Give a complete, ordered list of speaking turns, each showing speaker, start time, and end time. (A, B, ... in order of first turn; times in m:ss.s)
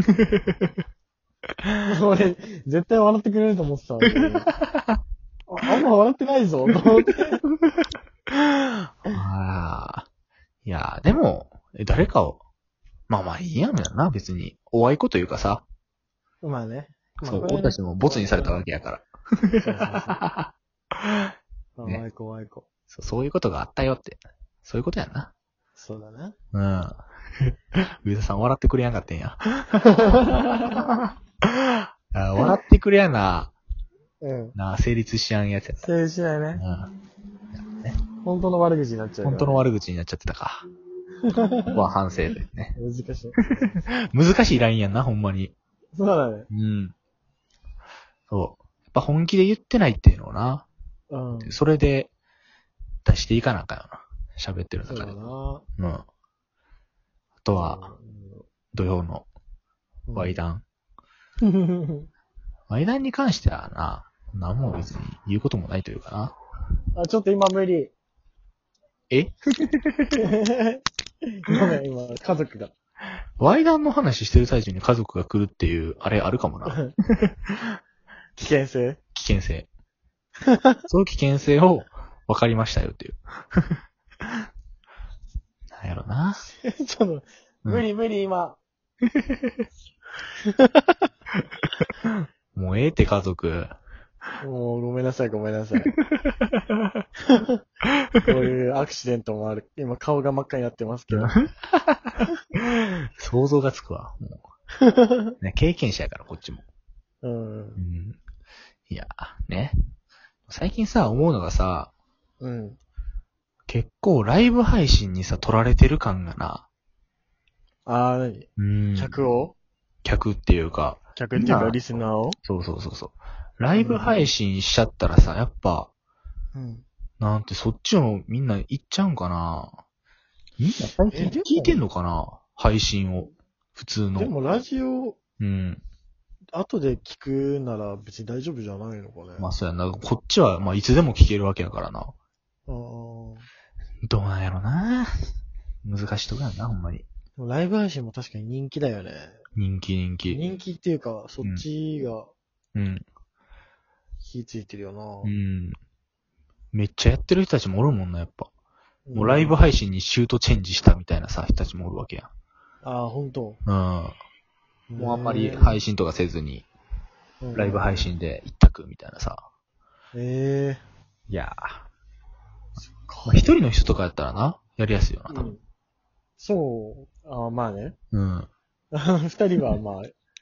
0:00.2-0:00.7 A
0:01.9-0:04.5 B
0:04.1-0:05.0 A
0:05.5-0:07.4 B
0:09.1-0:10.1 A
0:10.6-0:12.4 A
0:13.1-0:15.6 A
0:16.4-0:18.6 B
0:17.2-0:19.7 A
0:19.6-0:20.2 B
0:20.2-0:20.5 A
0:21.8-0:22.6 B
0:22.9-0:25.3 A
0:25.8-0:26.4 B
0:26.5-0:29.4 A
0:30.0-0:30.7 B
0:30.2-0:30.9 A
0:32.1-0:33.5 A
0:34.2-0:34.6 B
0:34.6-0:35.9 A
0:35.8-0:36.6 B
0:36.6-0:36.9 A
0:38.2-0:39.6 B
0:39.2-0:40.6 A
0:41.2-0:41.8 B
0:41.7-0:42.7 A
0:42.8-0:43.7 B
0:44.1-0:45.5 A
0:45.9-0:46.5 B
0:46.5-0:47.0 A
0:48.3-0:50.7 A
0:51.1-0:51.6 B
0:51.4-0:52.1 A
0:53.0-0:55.2 A
0:54.8-0:55.6 B
0:55.8-0:56.0 A
0:57.4-0:57.9 A
0:57.5-0:58.5 B
0:58.7-0:59.3 A
1:00.1-1:00.4 B
1:00.2-1:00.6 A
1:01.4-1:02.1 B
1:02.7-1:06.3 A
1:07.0-1:07.9 B
1:09.1-1:10.2 A
1:10.2-1:10.8 B
1:11.4-1:12.7 B
1:13.4-1:17.3 A
1:16.7-1:16.9 B
1:18.4-1:19.0 B
1:19.1-1:19.7 A
1:20.5-1:20.8 B
1:20.9-1:23.8 A
1:25.7-1:26.4 A
1:26.4-1:28.6 B
1:30.5-1:31.0 B
1:32.5-1:33.7 A
1:34.4-1:35.9 B
1:36.1-1:36.6 A
1:37.3-1:37.6 B
1:38.2-1:41.4 B
1:41.1-1:42.2 A
1:43.2-1:44.4 A
1:44.8-1:45.3 B
1:45.4-1:46.6 A
1:47.2-1:47.8 B
1:47.8-1:48.2 A
1:48.9-1:49.8 A
1:50.5-1:51.9 A
1:52.4-1:52.8 B
1:53.7-1:56.7 A
1:57.9-1:59.6 B
1:58.6-1:59.2 A
2:00.0-2:05.9 A
2:01.2-2:02.4 B
2:03.8-2:04.2 B
2:06.6-2:06.8 B
2:07.2-2:09.7 A
2:10.6-2:14.3 A
2:11.1-2:11.8 B
2:14.2-2:15.2 B
2:15.4-2:15.8 A
2:16.5-2:19.5 B
2:19.4-2:22.1 A
2:22.7-2:23.5 B
2:24.1-2:25.1 A
2:25.8-2:27.0 A
2:27.4-2:29.4 B
2:29.6-2:30.4 A
2:30.3-2:32.3 B
2:32.8-2:33.0 A
2:34.2-2:35.3 B
2:35.2-2:35.8 A
2:36.7-2:38.5 A
2:39.1-2:39.5 B
2:39.2-2:42.3 A
2:42.8-2:43.6 B
2:43.7-2:44.2 A
2:44.9-2:45.8 B
2:45.0-2:46.7 A
2:47.4-2:48.1 B
2:47.5-2:49.4 A
2:50.1-2:50.8 B
2:51.3-2:51.9 A
2:52.9-2:53.5 B
2:53.2-2:55.5 A
2:55.3-2:55.6 B
2:56.4-2:58.0 B
2:58.1-2:58.5 A
2:58.9-3:00.1 B